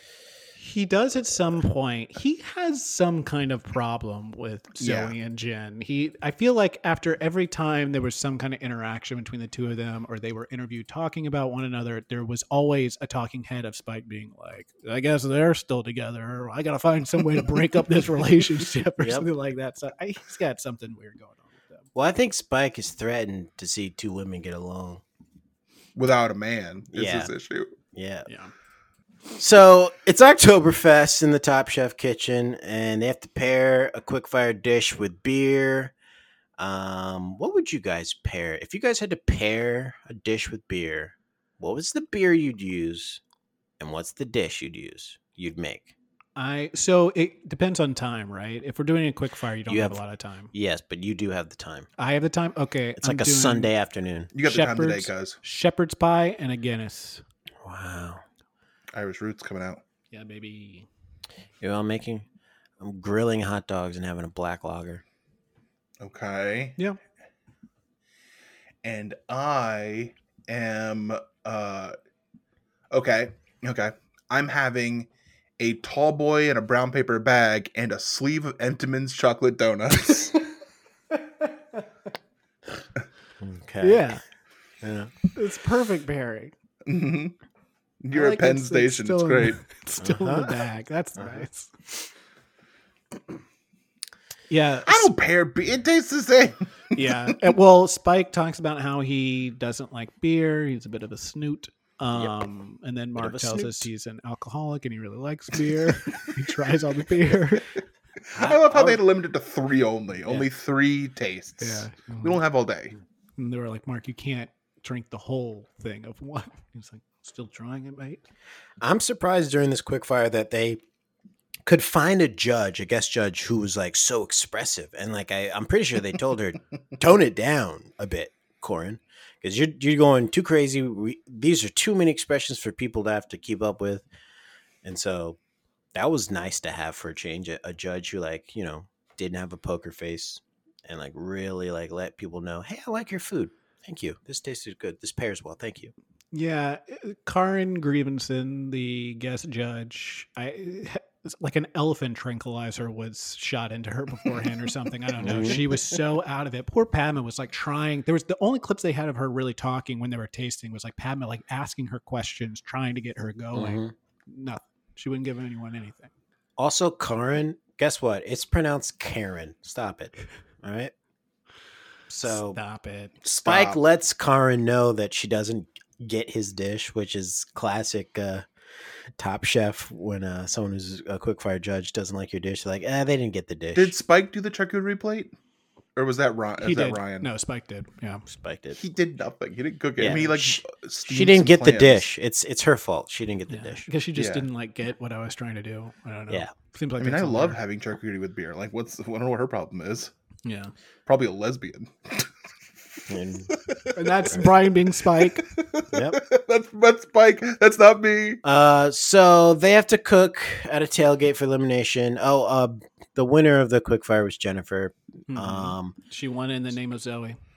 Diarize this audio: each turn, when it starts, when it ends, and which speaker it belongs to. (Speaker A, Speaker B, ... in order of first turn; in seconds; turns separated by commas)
Speaker A: 0.6-21.9, Speaker B: 4.8-5.1, Speaker C: 19.0-19.3, Speaker C: 21.9-25.0, Speaker B: 25.9-27.7, Speaker C: 26.9-27.3, Speaker C: 27.9-28.3, Speaker A: 28.3-28.5, Speaker C: 29.4-35.9, Speaker C: 36.6-43.2, Speaker C: 43.8-45.9, Speaker A: 46.4-50.5, Speaker C: 49.7-51.9, Speaker A: 52.0-53.7, Speaker C: 53.0-54.3, Speaker B: 54.3-55.4, Speaker A: 54.4-57.2, Speaker C: 57.6-58.2, Speaker B: 58.9-59.8, Speaker A: 60.1-60.9, Speaker C: 61.6-62.2, Speaker C: 62.8-65.0, Speaker B: 66.0-66.8, Speaker B: 68.8-72.0, Speaker B: 72.9-75.1, Speaker B: 75.6-80.4, Speaker C: 83.4-84.2, Speaker A: 83.8-84.2, Speaker C: 84.8-85.1, Speaker A: 85.3-86.5, Speaker B: 86.8-87.3, Speaker B: 88.0-89.6, Speaker A: 88.1-92.1, Speaker C: 90.0-90.6, Speaker C: 91.2-91.4, Speaker A: 94.5-95.1, Speaker B: 94.9-97.0, Speaker A: 96.9-107.7, Speaker C: 102.1-102.4, Speaker C: 103.2-103.9, Speaker B: 108.3-112.9, Speaker C: 108.3-109.0, Speaker A: 111.6-112.4, Speaker A: 113.4-118.2, Speaker C: 118.8-120.8, Speaker C: 121.6-134.1, Speaker C: 134.8-135.4, Speaker C: 135.9-145.9, Speaker A: 146.3-166.1, Speaker C: 155.2-155.6, Speaker C: 163.5-163.9, Speaker C: 166.6-170.9, Speaker C: 172.1-172.6, Speaker A: 172.2-173.1, Speaker B: 173.2-173.8, Speaker C: 173.4-178.4, Speaker C: 179.2-183.9, Speaker B: 183.7-185.3, Speaker B: 185.9-187.3, Speaker A: 186.6-188.2, Speaker C: 188.3-188.8, Speaker B: 188.8-192.1, Speaker C: 190.0-193.9, Speaker A: 193.5-197.6, Speaker B: 194.1-194.4, Speaker B: 197.0-200.1, Speaker A: 200.4-200.7, Speaker B: 201.1-202.3, Speaker C: 203.1-203.5, Speaker B: 203.7-204.4, Speaker A: 203.9-205.4, Speaker B: 205.2-208.4, Speaker C: 205.9-206.2, Speaker C: 208.4-215.9, Speaker A: 215.3-217.4